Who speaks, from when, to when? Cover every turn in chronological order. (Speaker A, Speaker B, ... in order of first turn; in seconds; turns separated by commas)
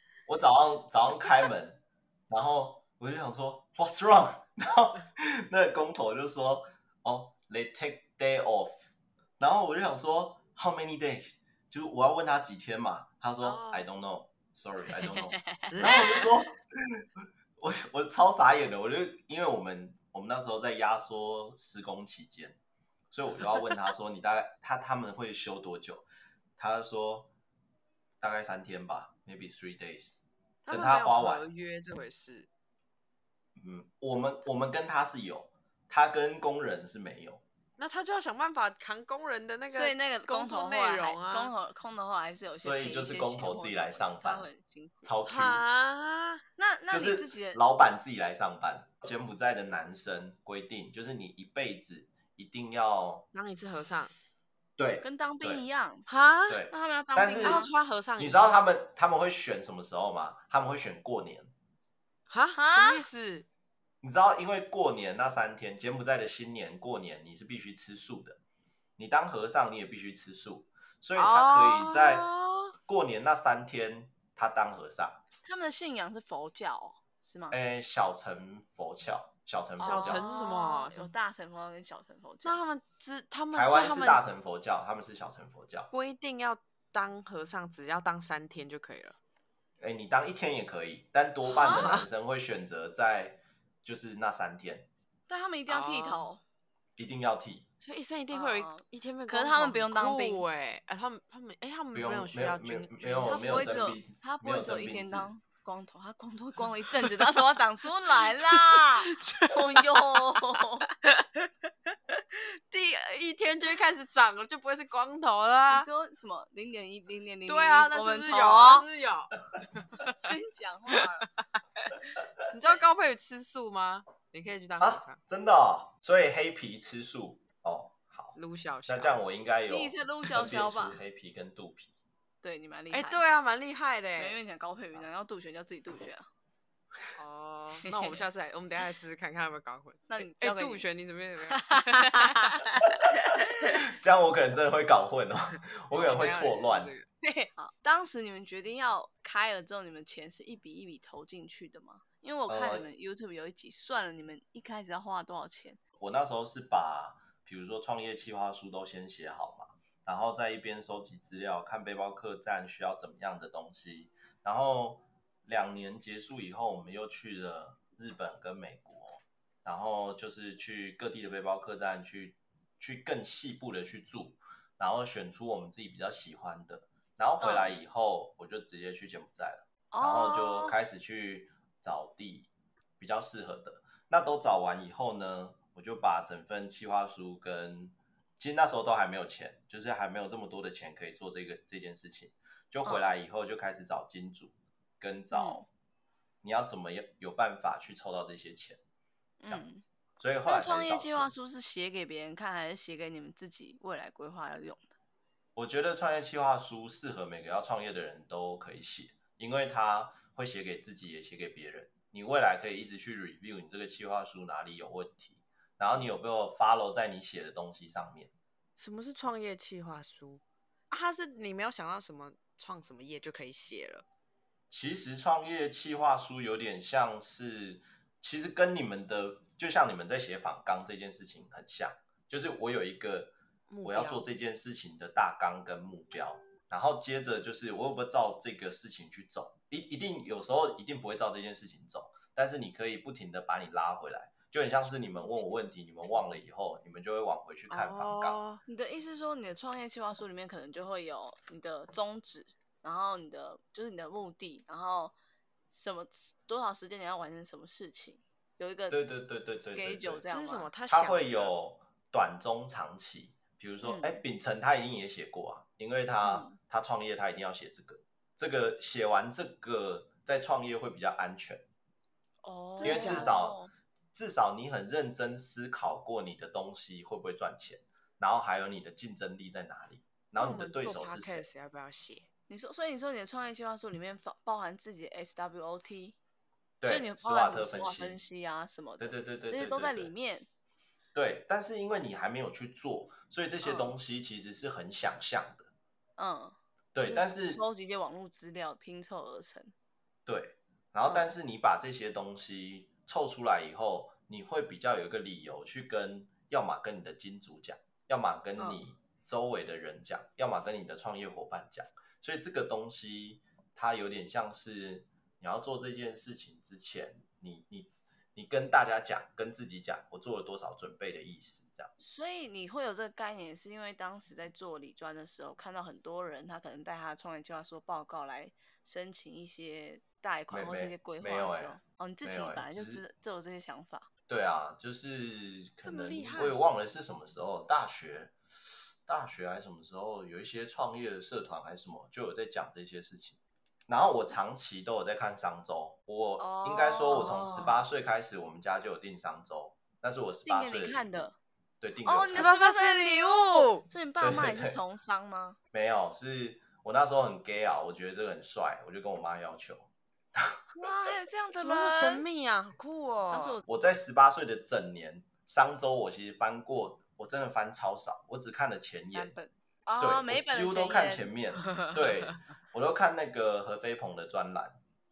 Speaker A: 0.2-17.0, Speaker B: 13.4-13.8, Speaker B: 15.7-16.3, Speaker A: 17.6-22.6, Speaker A: 23.1-26.0, Speaker A: 26.6-27.3, Speaker A: 28.2-31.4, Speaker B: 30.6-32.5, Speaker A: 33.5-37.4, Speaker B: 37.8-41.5, Speaker C: 39.7-45.1, Speaker A: 42.5-44.5, Speaker A: 45.0-45.6, Speaker B: 45.2-46.4, Speaker C: 46.6-47.6, Speaker A: 46.9-53.3, Speaker B: 53.3-54.1, Speaker A: 54.8-55.6, Speaker C: 55.0-56.1, Speaker B: 56.1-56.6, Speaker A: 56.5-57.6, Speaker C: 56.7-57.7, Speaker B: 57.4-58.6, Speaker A: 58.2-61.5, Speaker B: 62.3-63.5, Speaker C: 62.5-63.0, Speaker A: 64.0-68.4, Speaker A: 69.0-72.3, Speaker B: 71.1-72.7, Speaker A: 72.8-75.2, Speaker C: 75.4-77.6, Speaker A: 77.5-80.2, Speaker C: 79.8-82.6, Speaker B: 79.8-81.1, Speaker B: 82.4-84.2, Speaker A: 83.5-85.9, Speaker B: 85.9-89.2, Speaker A: 89.8-94.9, Speaker C: 91.5-92.0, Speaker B: 91.5-92.0, Speaker C: 95.3-96.4, Speaker B: 95.7-96.2, Speaker A: 97.0-97.7, Speaker B: 97.8-103.8, Speaker C: 98.3-100.4, Speaker A: 101.9-105.3, Speaker C: 103.2-110.9, Speaker B: 108.4-111.5, Speaker B: 112.7-115.9, Speaker C: 115.7-118.9, Speaker B: 117.5-120.2, Speaker C: 120.2-121.3, Speaker B: 122.5-125.2, Speaker A: 124.8-128.3, Speaker B: 128.3-129.2, Speaker A: 128.9-131.9, Speaker C: 129.7-131.0, Speaker C: 132.4-133.2, Speaker B: 132.9-134.4, Speaker C: 134.2-136.3, Speaker B: 137.2-143.8, Speaker C: 140.1-140.8, Speaker C: 141.5-142.3, Speaker A: 143.7-146.9, Speaker B: 145.9-147.5, Speaker C: 147.6-155.8, Speaker A: 152.5-152.9, Speaker A: 156.0-195.7, Speaker C: 177.4-177.8, Speaker C: 179.9-180.8, Speaker C: 192.8-193.1, Speaker C: 195.3-195.7, Speaker A: 196.4-198.8, Speaker C: 199.4-199.8, Speaker A: 200.2-201.3, Speaker C: 200.4-204.9, Speaker A: 205.6-218.3, Speaker B: 218.8-224.0, Speaker A: 224.7-233.3, Speaker B: 233.7-234.2, Speaker A: 233.8-248.4, Speaker C: 245.0-245.5, Speaker B: 247.7-248.6, Speaker C: 248.6-255.1, Speaker C: 255.7-259.0, Speaker A: 258.9-260.2, Speaker C: 259.6-260.7, Speaker B: 260.3-261.5, Speaker A: 260.9-271.6, Speaker C: 263.8-264.2, Speaker C: 266.2-266.6, Speaker C: 272.4-273.7, Speaker B: 272.8-273.3, Speaker A: 272.8-273.6, Speaker A: 274.1-281.4, Speaker B: 280.4-282.2, Speaker C: 282.5-286.2, Speaker A: 286.8-288.2, Speaker C: 286.8-290.5, Speaker A: 289.0-290.1, Speaker A: 291.1-295.7, Speaker C: 293.6-293.9, Speaker C: 296.2-299.7, Speaker A: 296.9-297.6, Speaker A: 300.2-321.9, Speaker C: 322.0-334.1, Speaker A: 330.5-333.0, Speaker A: 334.3-338.3, Speaker B: 335.8-336.6, Speaker A: 339.1-351.2, Speaker C: 346.4-347.8, Speaker C: 350.4-351.4, Speaker A: 351.8-352.5, Speaker C: 352.0-355.6, Speaker B: 352.3-353.8, Speaker A: 354.2-354.8, Speaker A: 355.7-361.1, Speaker C: 360.7-362.2, Speaker B: 361.5-363.6, Speaker C: 363.3-363.6, Speaker A: 363.6-369.3, Speaker C: 369.1-371.9, Speaker A: 370.0-374.8